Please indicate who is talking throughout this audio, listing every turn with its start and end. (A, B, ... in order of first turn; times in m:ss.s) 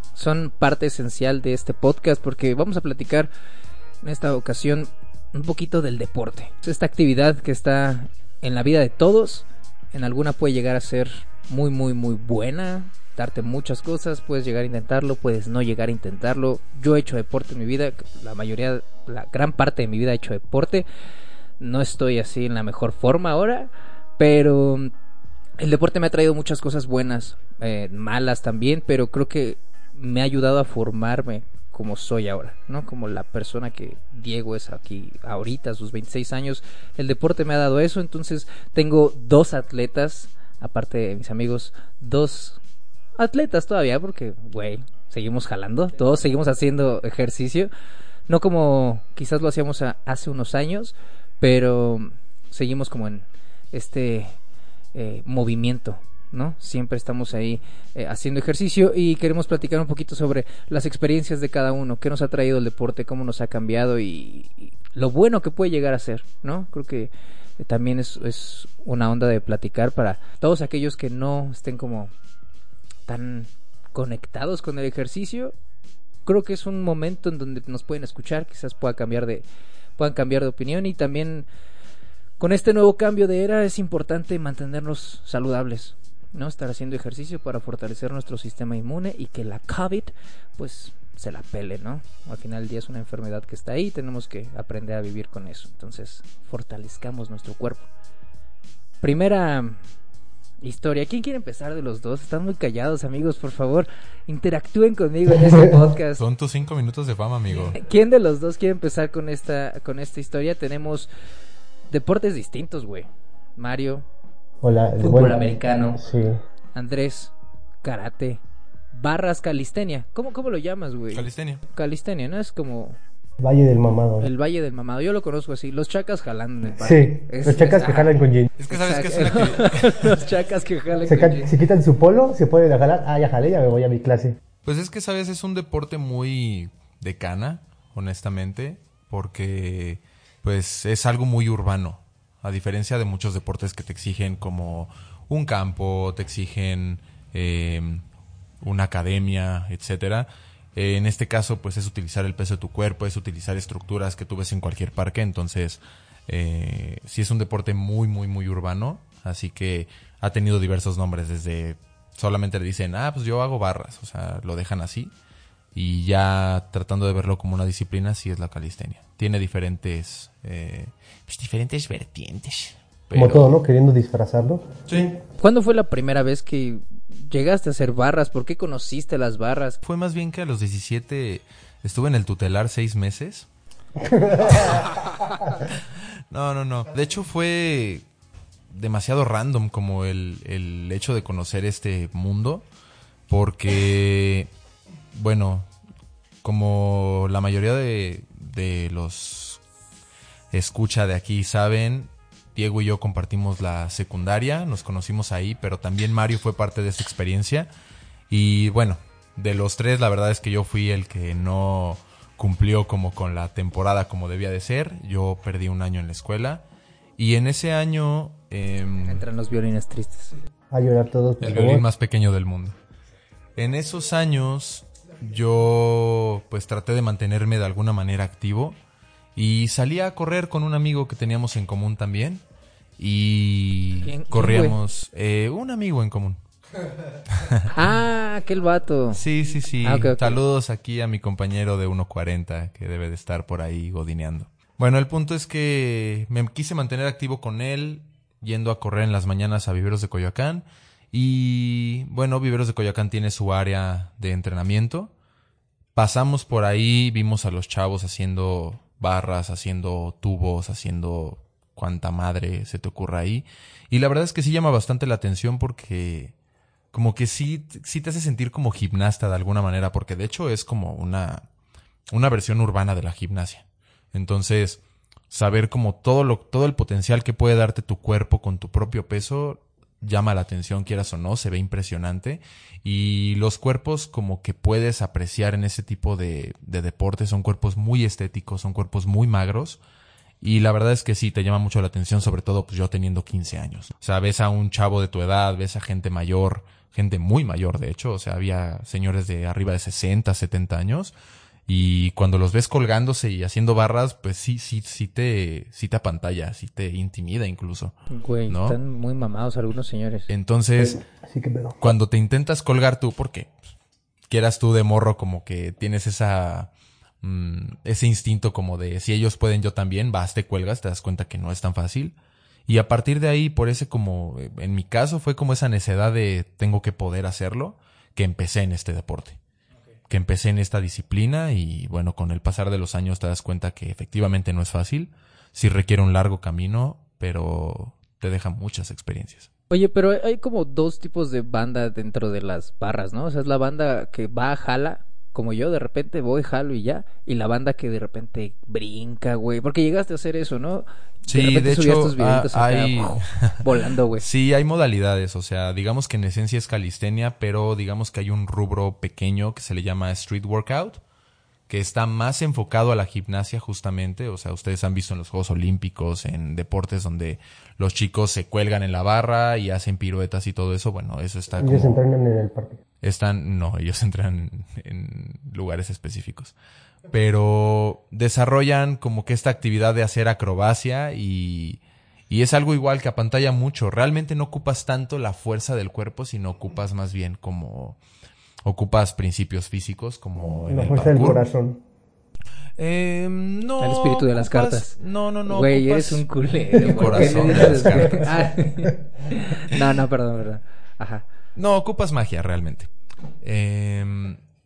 0:00.2-0:03.3 A
0:04.0-0:20.9 A
0:21.6-0:24.9 A
0:25.6-0:42.6 A
0:43.2-0:47.7 A
0:48.3-0:54.4 A
0:54.9-1:12.1 A
1:13.1-1:15.6 A
1:16.2-1:19.4 A
1:20.0-1:21.5 A
1:22.4-1:37.9 A
1:39.0-1:39.8 A
1:40.6-1:46.2 A
1:46.2-1:47.8 B
1:47.7-1:51.1 A
1:51.9-1:54.1 A
1:54.6-1:55.4 C
1:55.0-1:56.0 A
1:56.0-1:56.4 C
1:56.7-1:58.4 A
1:58.9-2:03.0 A
2:01.1-2:01.6 B
2:03.4-2:04.3 C
2:04.2-2:08.2 A
2:06.8-2:08.5 C
2:08.6-2:10.2 B
2:08.7-2:11.5 A
2:11.1-2:14.4 C
2:14.6-2:28.0 B
2:28.6-2:45.1 B
2:45.7-2:53.5 B
2:53.1-2:54.8 C
2:54.9-2:55.2 B
2:55.4-2:59.8 A
2:59.8-3:03.5 B
3:04.0-3:04.8 C
3:04.5-3:05.6 B
3:06.3-3:08.0 B
3:08.7-3:12.7 B
3:13.3-3:14.5 B
3:15.1-3:15.7 B
3:16.4-3:19.6 B
3:20.5-3:27.7 B
3:28.3-3:36.6 B
3:37.2-3:39.3 B
3:39.0-3:40.4 A
3:40.7-3:41.8 C
3:41.4-3:42.8 B
3:43.6-3:48.8 B
3:49.4-3:52.4 B
3:53.0-3:56.4 B
3:54.0-3:54.8 A
3:57.3-3:57.7 B
3:57.7-3:59.2 A
3:59.1-4:15.1 B
3:59.8-4:00.4 A
4:16.0-4:26.3 B
4:26.9-4:31.4 B
4:32.1-4:49.8 B
4:50.4-5:01.1 B
5:01.7-5:08.0 B
5:08.1-5:10.3 A
5:08.5-5:08.8 B
5:10.3-5:11.0 B
5:10.8-5:11.8 C
5:11.8-5:13.6 B
5:14.3-5:16.7 B
5:17.2-5:22.2 B
5:22.7-5:29.4 B
5:30.1-5:39.5 B
5:39.7-5:54.2 A
5:51.3-5:53.6 B
5:54.2-6:01.0 B
6:01.7-6:12.0 B
6:11.6-6:12.8 C
6:13.0-6:16.6 B
6:17.1-6:28.0 B
6:28.6-6:31.4 B
6:30.7-6:31.8 C
6:32.8-6:38.3 B
6:33.8-6:34.9 A
6:35.5-6:41.2 A
6:37.7-6:38.3 C
6:41.6-6:42.9 B
6:43.4-6:44.4 B